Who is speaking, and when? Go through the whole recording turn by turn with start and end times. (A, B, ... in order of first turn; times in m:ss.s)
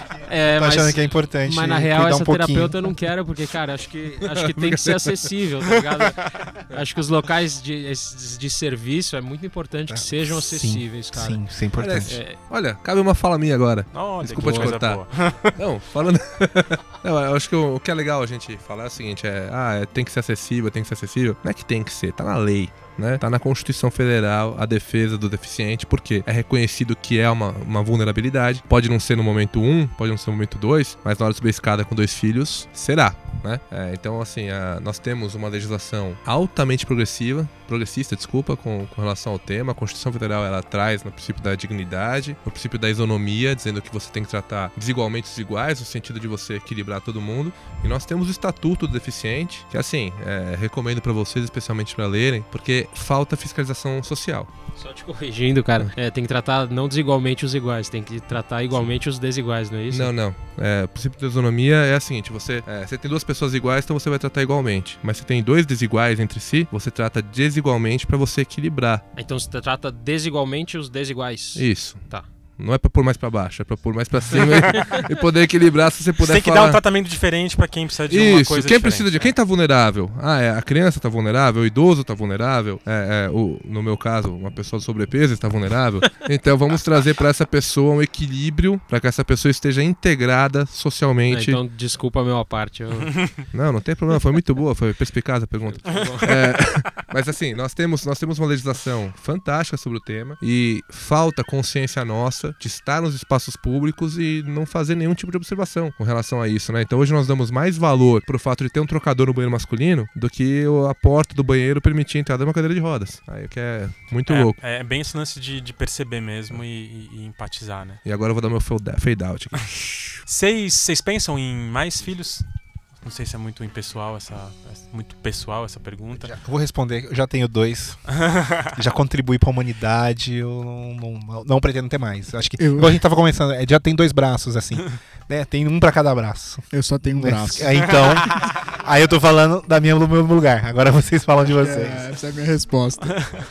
0:00.2-0:11.4 A
0:00.4-0:02.9 B
0:09.9-0:12.2 B
0:11.8-0:54.5 C
0:12.0-0:12.4 A
0:13.9-0:15.6 D
0:14.3-0:14.8 A
0:54.8-1:00.1 A
0:59.9-1:09.0 C
1:09.2-1:12.3 A
1:11.5-1:16.8 C
1:14.3-1:15.0 D
1:14.6-1:15.0 A
1:16.2-1:19.3 D
1:18.1-1:31.6 C
1:31.3-1:33.2 A
1:33.1-1:33.4 D
1:33.5-1:54.6 C
1:35.7-1:36.5 A
1:35.9-1:37.0 D
1:54.2-1:58.0 D
1:58.0-2:00.2 C
2:00.2-2:02.4 D
2:03.0-2:06.3 D
2:06.1-2:22.1 B
2:08.3-2:08.6 D
2:12.6-2:13.0 E
2:16.7-2:18.2 E
2:21.5-2:23.3 E